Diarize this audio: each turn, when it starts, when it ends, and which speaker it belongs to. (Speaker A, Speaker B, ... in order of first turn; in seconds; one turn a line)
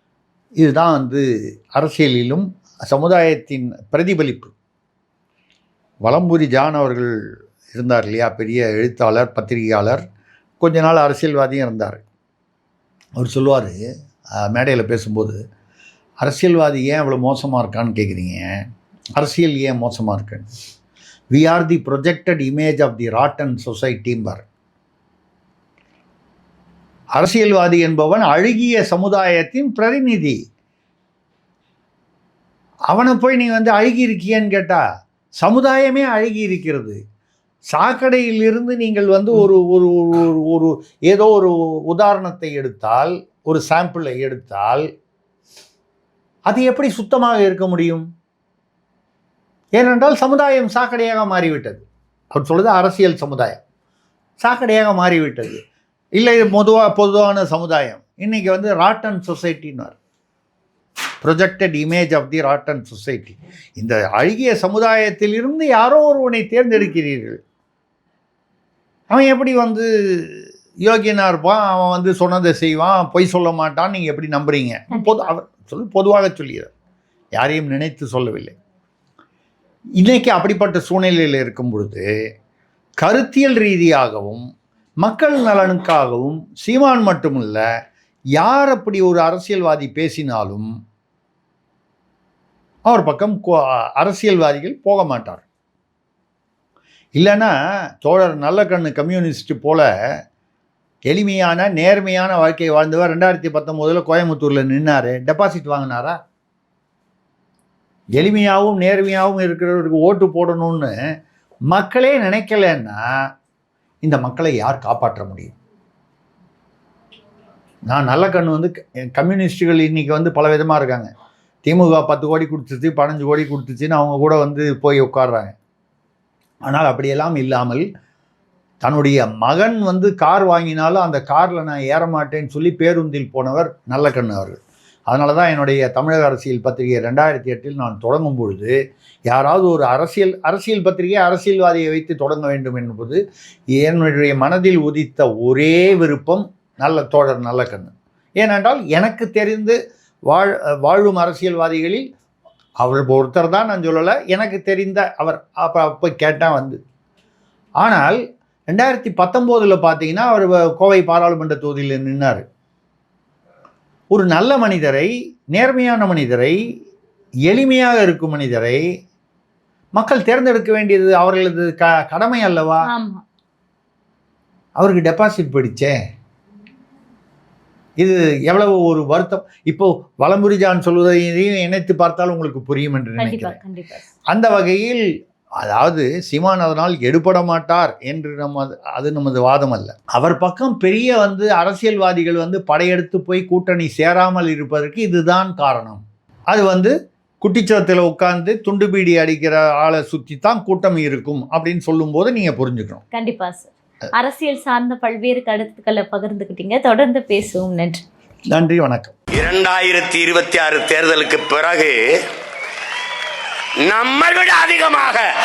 Speaker A: 0.6-1.2
Speaker A: 1.8-4.5
Speaker A: 6.0-7.1
Speaker A: 7.7-10.0
Speaker A: 10.6-12.0
Speaker A: 13.2-13.7
Speaker A: 14.4-15.4
Speaker A: 16.2-18.5
Speaker A: 19.2-20.5
Speaker A: 21.3-24.4
Speaker A: 27.2-30.4
Speaker A: 32.9-34.8
Speaker A: 35.4-37.0
Speaker A: 37.7-44.9
Speaker A: 46.5-48.0
Speaker A: 49.8-53.6
Speaker A: 54.4-55.6
Speaker A: 56.2-60.0
Speaker A: 61.2-67.4
Speaker A: 69.1-76.7
Speaker B: 74.9-75.3
Speaker A: 77.4-78.5
Speaker A: 80.0-82.0
Speaker A: 83.0-84.4
Speaker A: 85.0-87.6
Speaker A: 88.4-90.7
Speaker A: 92.9-95.4
Speaker A: 97.2-99.8
Speaker A: 101.1-106.2
Speaker A: 108.2-110.9
Speaker A: 111.7-113.0
Speaker A: 114.0-115.5
Speaker A: 117.9-121.1
Speaker A: 121.7-125.5
Speaker A: 126.7-127.8
Speaker A: 128.8-138.7
Speaker A: 139.3-143.2
Speaker A: 143.8-149.8
Speaker A: 150.3-152.0
Speaker A: 152.8-156.8
Speaker A: 157.8-158.2
Speaker A: 158.7-162.4
Speaker A: 164.1-166.6
Speaker A: 167.5-168.8
Speaker A: 169.9-172.8
Speaker B: 172.9-173.2
Speaker A: 174.8-175.9
Speaker A: 178.0-183.6
Speaker B: 183.2-184.1
Speaker A: 184.3-185.0
Speaker A: 185.6-203.0
Speaker B: 203.1-208.0
Speaker A: 208.5-209.1
Speaker C: 209.3-212.0
Speaker C: 213.8-215.3